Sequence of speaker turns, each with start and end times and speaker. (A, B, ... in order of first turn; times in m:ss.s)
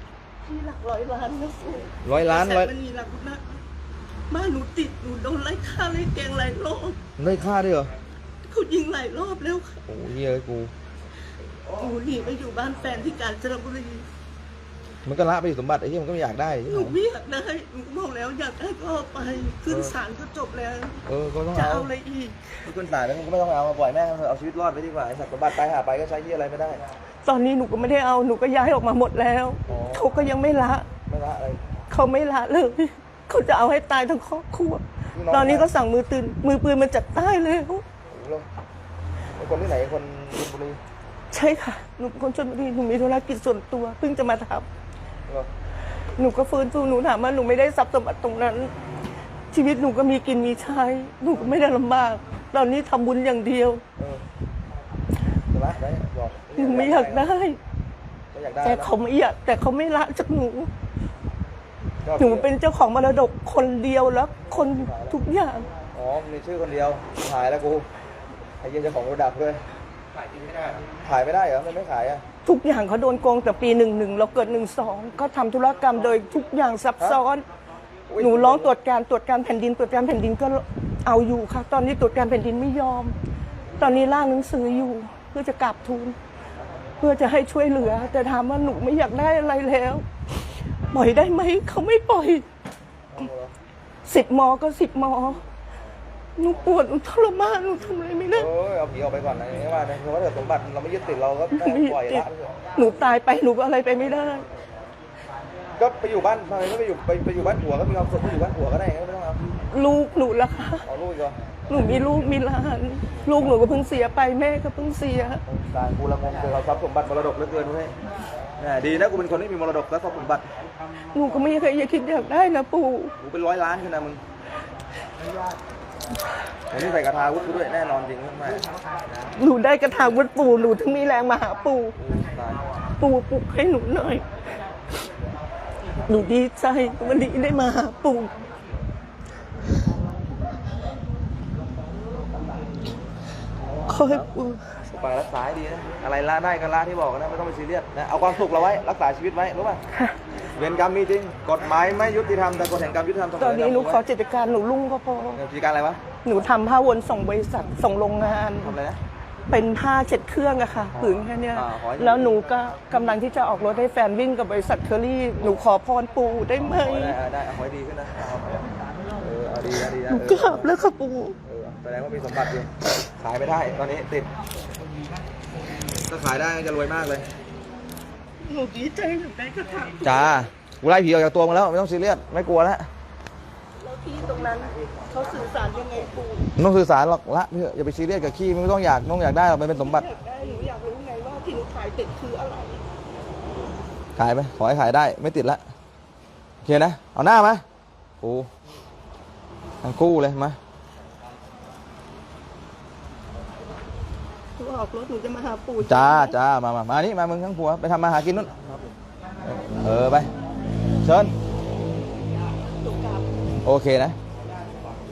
0:00.4-0:03.4 A
0:02.0-0:02.7 B
0:04.3-0:07.0 A
0:07.2-0:07.9 B
0:08.5-0:09.8 A
0:09.9-0:10.7 B
0:11.7-0:14.1 A
0:15.0-0:17.0 B
0:16.6-0:22.5 A
0:19.7-0:20.0 B
0:21.1-0:21.9 B
0:22.6-0:26.8 B
0:27.2-0:30.9 A
0:29.7-0:30.1 B
0:31.1-0:31.6 B
0:31.9-0:37.8 A
0:35.1-0:35.7 B
0:38.1-0:38.4 B
0:39.4-0:40.8 B
0:41.3-0:44.7 A
0:46.2-0:48.8 A
0:49.5-0:53.8 A
0:54.0-0:54.2 B
0:55.5-0:57.4 B
0:56.6-0:57.6 A
0:58.3-0:58.9 B
0:58.6-1:00.7 A
1:02.0-1:02.5 B
1:02.2-1:05.7 A
1:04.5-1:05.2 B
1:05.9-1:07.9 B
1:08.6-1:09.6 B
1:11.0-1:12.2 B
1:12.4-1:17.4 A
1:18.1-1:18.7 B
1:18.2-1:23.2 A
1:23.8-1:26.2 A
1:27.0-1:30.0 A
1:30.9-1:32.4 A
1:33.1-1:33.5 B
1:34.0-1:35.4 A
1:36.4-1:38.5 A
1:38.3-1:42.6 B
1:41.5-1:44.5 A
1:45.8-1:49.4 B
1:49.7-1:50.9 A
1:50.8-1:51.4 B
1:51.7-1:55.4 A
1:55.5-1:57.9 B
1:58.6-2:00.4 B
2:01.1-2:03.1 A
2:03.2-2:04.2 B
2:06.7-2:08.7 B
2:09.4-2:12.0 A
2:12.0-2:12.6 B
2:13.0-2:14.2 A
2:16.1-2:18.4 A
2:23.9-2:24.8 A
2:23.9-2:24.3 B
2:24.8-2:29.8 B
2:30.6-2:34.0 B
2:33.4-2:35.4 A
2:35.4-2:36.0 B
2:36.2-2:38.8 A
2:38.6-2:39.0 B
2:39.5-2:47.2 A
2:41.0-2:42.4 B
2:46.6-2:50.7 B
2:50.1-2:51.4 A
2:51.4-2:54.3 B
2:55.9-2:57.3 B
2:58.4-3:00.4 A
3:00.0-3:02.9 B
3:03.8-3:06.5 A
3:06.6-3:10.0 B
3:09.7-3:12.8 A
3:14.2-3:15.6 B
3:16.6-3:17.6 B
3:18.2-3:18.5 B
3:19.8-3:20.6 B
3:24.6-3:26.4 A
3:25.8-3:28.5 B
3:29.5-3:30.3 B
3:31.0-3:31.3 B
3:32.6-3:33.3 A
3:33.6-3:34.2 B